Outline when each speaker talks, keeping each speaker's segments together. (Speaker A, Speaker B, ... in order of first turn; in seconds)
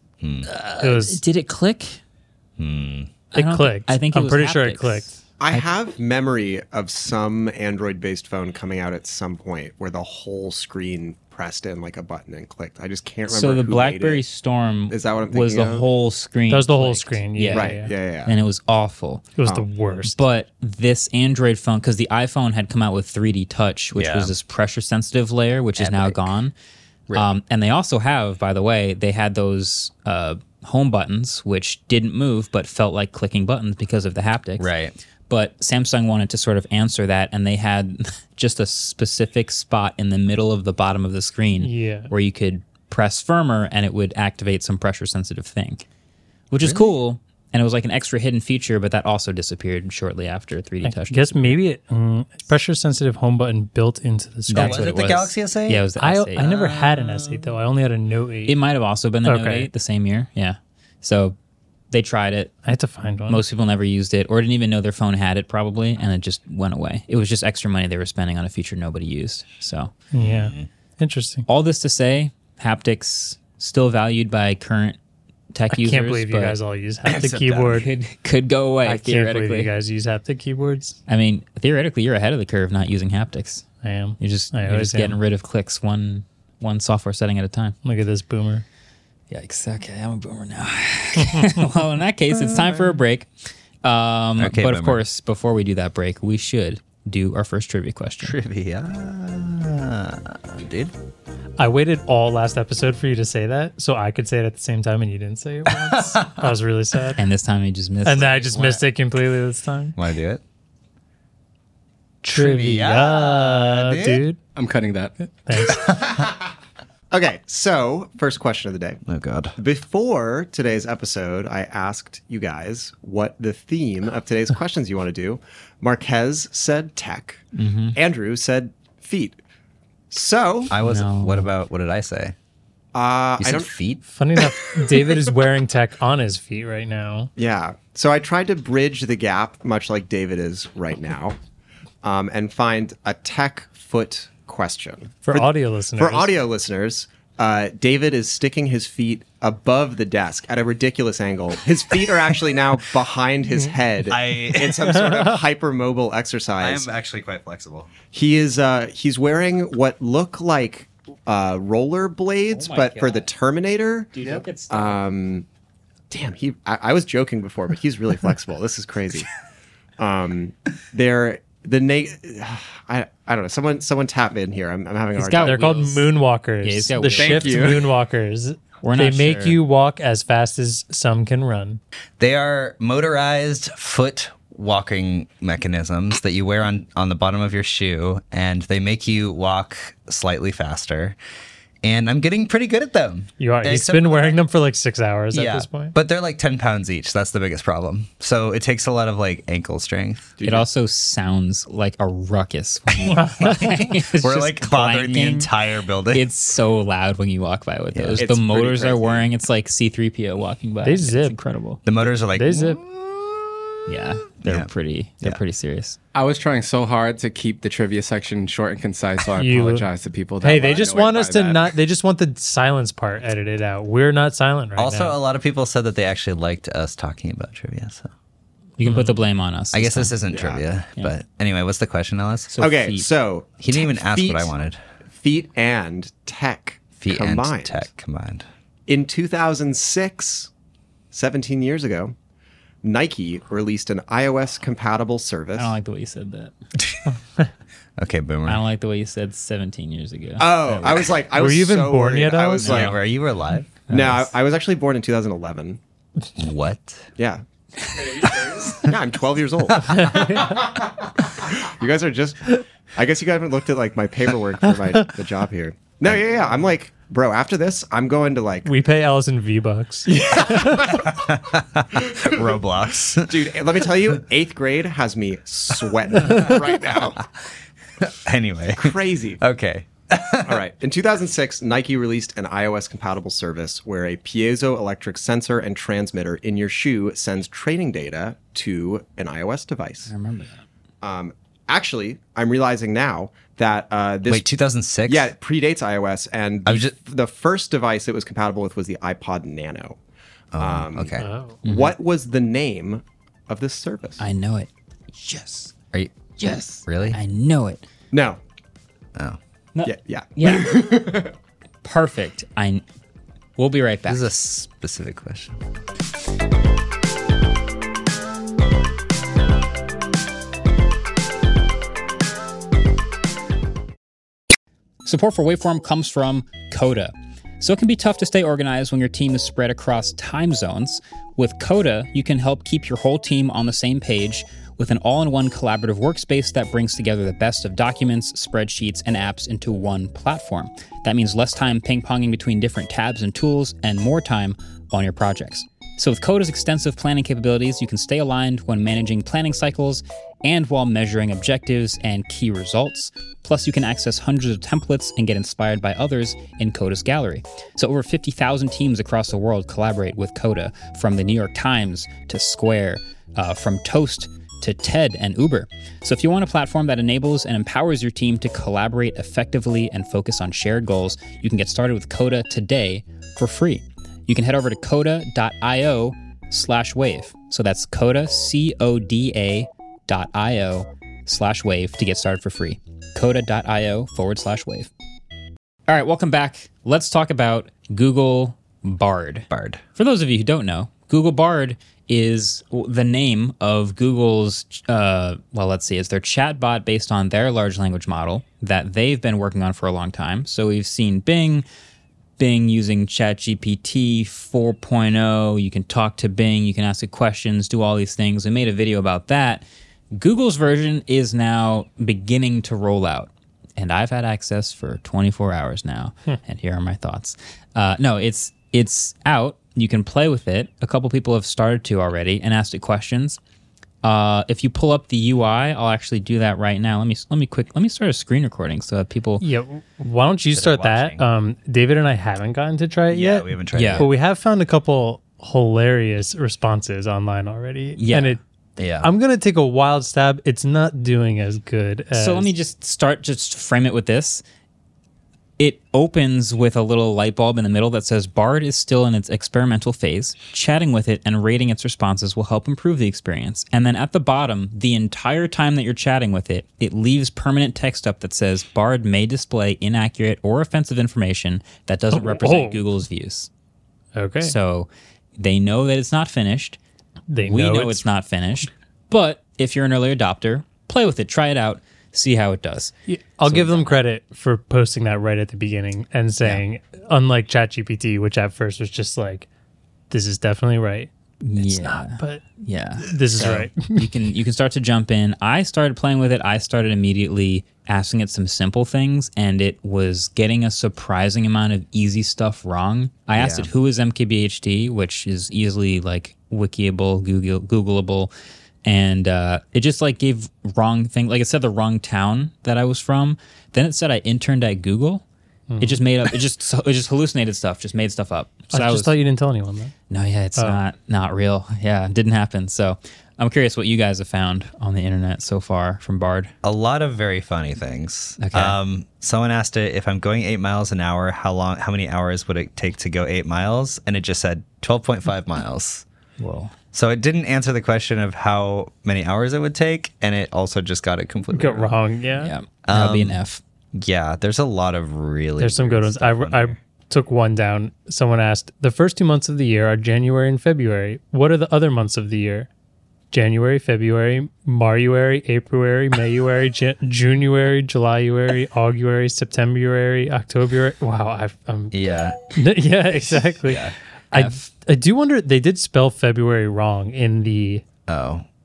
Speaker A: 0.2-0.5, 2.6-3.1, 23.9-24.3, 25.8-26.4, 34.6-35.0, 46.6-46.9, 54.5-57.6, 70.2-70.7, 77.0-77.9, 92.5-92.8, 94.4-95.0, 98.2-100.9, 105.7-106.5, 110.0-110.4, 112.3-114.2, 115.7-116.1, 119.1-119.5, 130.7-132.3, 133.4-134.0, 154.0-155.2, 156.6-157.9, 182.2-191.2, 191.8-194.4, 195.3-200.4, 203.1-206.3, 207.9-208.2, 211.8-213.3, 214.4-214.7, 224.8-228.1, 229.7-232.5, 233.6-234.8, 237.0-238.4, 248.0-248.6, 252.6-253.8, 256.4-257.1, 270.4-273.5, 278.0-280.6, 294.2-295.3, 296.6-296.9, 300.5-301.3, 305.9-307.2, 314.1-315.6, 389.5-389.8, 430.5-431.2, 433.1-434.1, 438.8-439.1, 493.3-493.7, 516.6-526.0, 526.9-532.0, 532.8-533.4, 533.9-536.8, 551.9-552.4, 553.6-553.9, 558.1-558.4
Speaker B: 0.4-2.0, 3.3-5.7, 13.3-19.3, 20.0-26.5, 27.1-34.7, 35.3-45.8, 46.5-51.5, 54.5-56.5, 58.5-61.4, 61.9-62.6, 63.3-69.9, 71.5-75.0, 75.5-76.6, 77.7-79.7, 81.1-83.7, 84.2-87.8, 89.3-93.3, 93.8-98.4, 107.2-108.8, 127.5-128.0, 130.8-131.5, 162.5-163.3, 164.1-165.0, 175.2-176.1, 176.6-177.8, 178.8-179.6, 200.4-205.5, 206.1-211.8, 213.9-216.0, 228.8-230.1, 232.5-233.1, 245.6-246.5, 248.5-251.1, 253.9-254.3, 290.1-290.6, 301.6-301.9, 304.2-305.7, 306.4-307.8, 309.7-310.9, 311.8-312.8, 313.6-314.3, 325.0-384.9, 385.9-401.6, 402.4-423.4, 424.0-429.4, 433.7-434.1, 438.0-438.4, 442.1-444.4, 445.6-463.5, 464.4-466.8, 467.4-474.0, 481.4-498.3, 498.8-505.2, 505.8-509.2, 510.1-516.5, 518.4-518.8, 526.4-526.7, 532.4-533.6, 554.3-554.6
Speaker C: 0.8-1.2, 3.3-5.1, 16.5-17.9, 19.4-20.2, 41.6-42.1, 50.8-55.0, 56.0-58.6, 59.2-59.7, 62.6-63.4, 70.1-71.5, 75.7-77.9, 78.8-81.0, 83.8-85.2, 87.8-88.6, 101.6-107.2, 108.0-110.0, 112.2-114.4, 115.5-115.9, 134.0-137.3, 145.2-146.3, 175.4-181.8, 193.4-195.9, 203.1-203.7, 210.8-211.4, 212.3-212.8, 219.4-219.8, 220.4-225.1, 251.3-252.8, 260.0-260.5, 268.6-270.8, 301.2-301.6, 429.4-438.4, 439.0-442.5, 462.1-462.8, 464.1-464.5, 467.3-468.0, 473.1-479.5, 480.1-482.4, 483.0-484.1, 505.7-506.0, 508.7-509.9, 531.5-532.5, 535.6-542.7, 543.3-552.0, 552.5-557.8
Speaker D: 5.4-14.2, 14.9-15.9, 17.5-18.4, 116.0-116.3, 117.1-119.0, 119.6-127.4, 127.9-129.4, 130.1-130.7, 132.9-133.7, 137.3-141.4, 142.0-156.9, 158.1-165.4, 166.1-169.3, 170.0-175.8, 200.4-200.7, 208.2-209.3, 230.3-230.6, 232.6-234.5, 235.1-237.9, 238.9-240.5, 241.1-242.1, 242.8-245.7, 250.4-253.0, 253.9-255.8, 257.2-257.4, 257.9-268.7, 270.1-271.2, 272.0-272.5, 273.1-277.2, 278.8-279.4, 280.4-290.1, 291.0-294.4, 295.1-300.0, 300.6-304.2, 308.1-308.4, 309.8-311.3
Speaker E: 114.5-115.1, 177.1-177.9, 216.1-221.7